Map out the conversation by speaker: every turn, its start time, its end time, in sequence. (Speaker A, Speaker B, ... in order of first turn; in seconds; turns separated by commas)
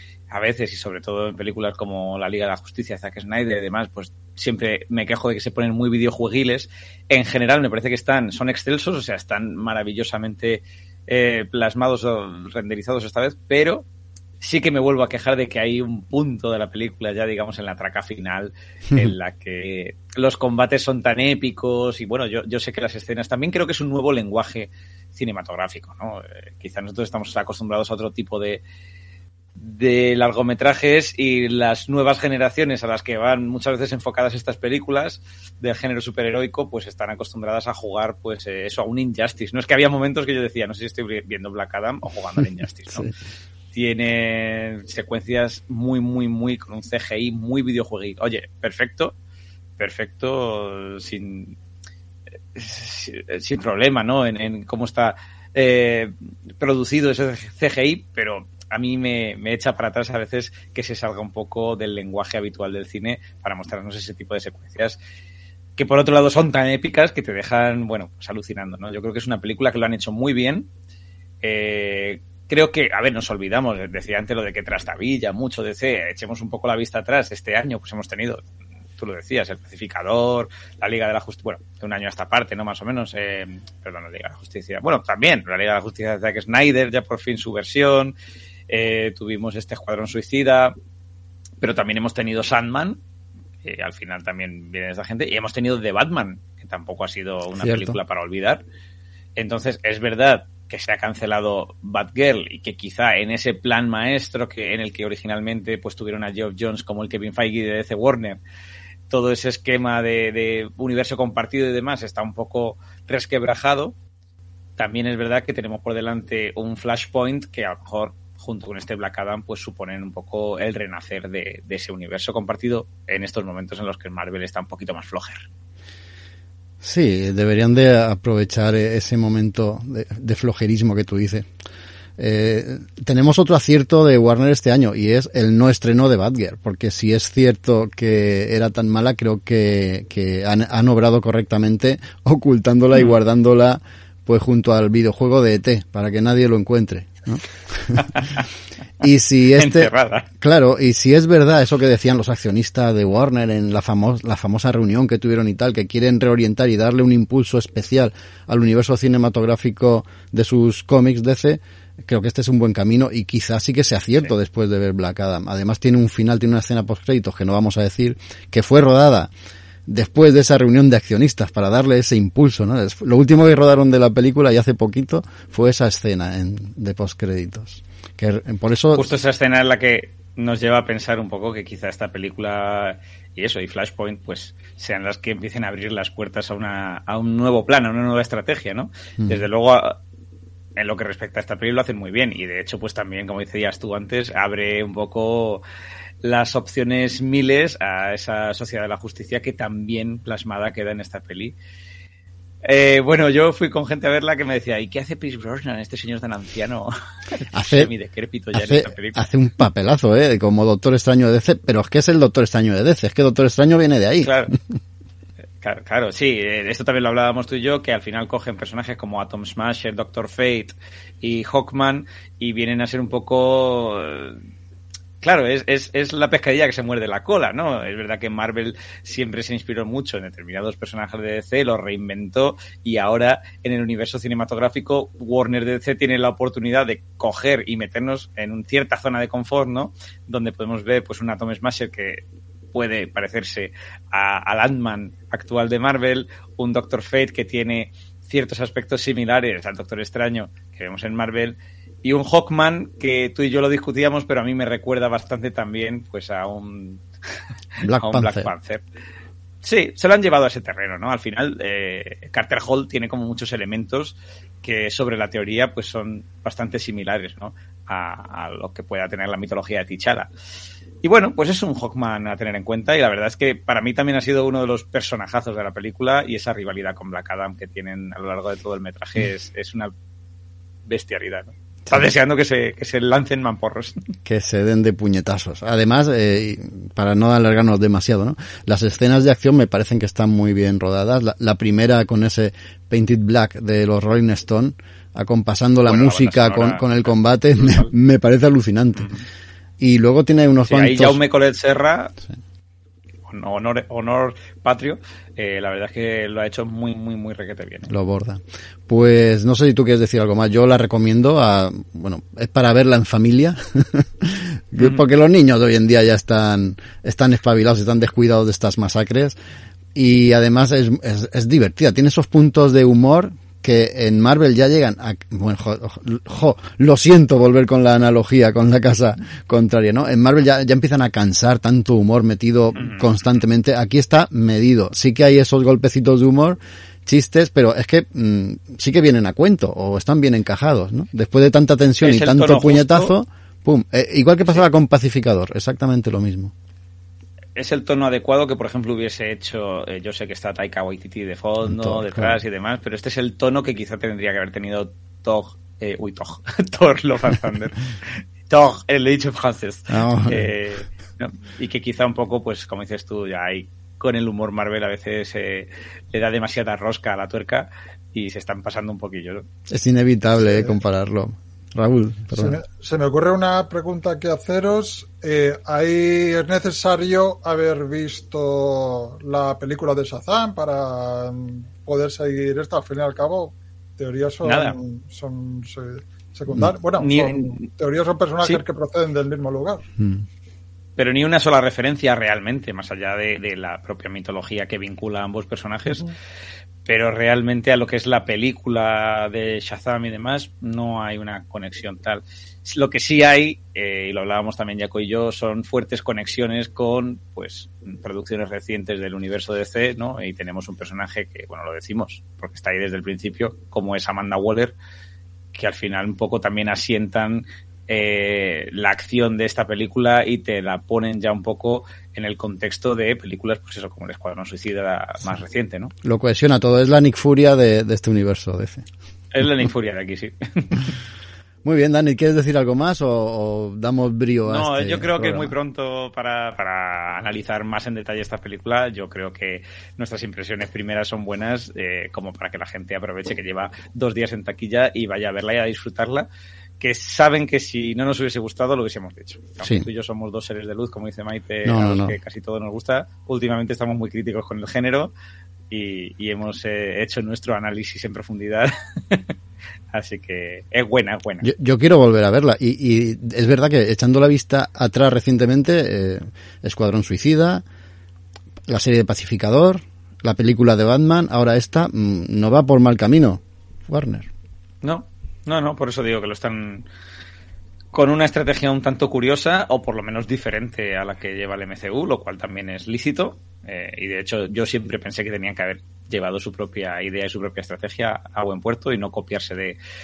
Speaker A: 0.3-13.8, Speaker A: 14.4-28.6, Speaker A: 29.6-43.1, Speaker A: 43.7-49.1, Speaker A: 49.8-51.6, Speaker A: 52.5-65.0, Speaker A: 65.8-70.7, Speaker A: 71.4-78.4, Speaker A: 79.0-88.1, Speaker A: 88.7-90.7, Speaker A: 91.6-93.0, Speaker A: 93.6-98.6, Speaker B: 97.6-98.0, Speaker A: 99.3-108.4, Speaker A: 109.1-114.0, Speaker A: 114.8-125.4, Speaker B: 126.8-131.5, Speaker B: 132.2-148.1, Speaker A: 148.0-148.4, Speaker B: 149.0-169.3, Speaker A: 149.6-150.3, Speaker B: 169.9-179.1, Speaker A: 178.9-190.0, Speaker A: 190.8-195.6, Speaker A: 196.2-201.6, Speaker A: 202.6-209.3, Speaker B: 207.5-207.9, Speaker B: 208.5-214.6, Speaker A: 214.2-214.5, Speaker A: 215.6-224.4, Speaker A: 225.2-242.2, Speaker A: 242.7-257.0, Speaker A: 257.8-258.8, Speaker B: 257.8-258.5, Speaker A: 259.6-270.3, Speaker A: 271.0-279.9, Speaker A: 280.9-284.1, Speaker B: 284.2-299.1, Speaker A: 295.8-297.9, Speaker B: 299.8-301.2, Speaker A: 300.6-302.1, Speaker A: 303.3-307.9, Speaker B: 307.9-319.4, Speaker B: 319.9-346.5, Speaker A: 332.8-333.1, Speaker A: 342.0-343.1, Speaker A: 347.6-369.4, Speaker B: 351.6-352.4, Speaker B: 359.9-360.5, Speaker B: 369.7-372.6, Speaker C: 372.3-389.9, Speaker A: 384.4-384.8, Speaker A: 387.0-387.6, Speaker B: 390.0-390.2, Speaker A: 391.0-396.1, Speaker A: 396.8-414.8, Speaker A: 415.5-425.9, Speaker B: 426.0-428.9, Speaker A: 429.3-430.8, Speaker B: 431.6-435.5, Speaker A: 434.5-446.3, Speaker A: 446.8-455.1, Speaker B: 451.6-452.1, Speaker A: 455.7-459.3, Speaker A: 459.9-461.5, Speaker B: 461.4-467.6, Speaker B: 468.7-474.3, Speaker A: 474.8-476.9, Speaker A: 477.9-489.8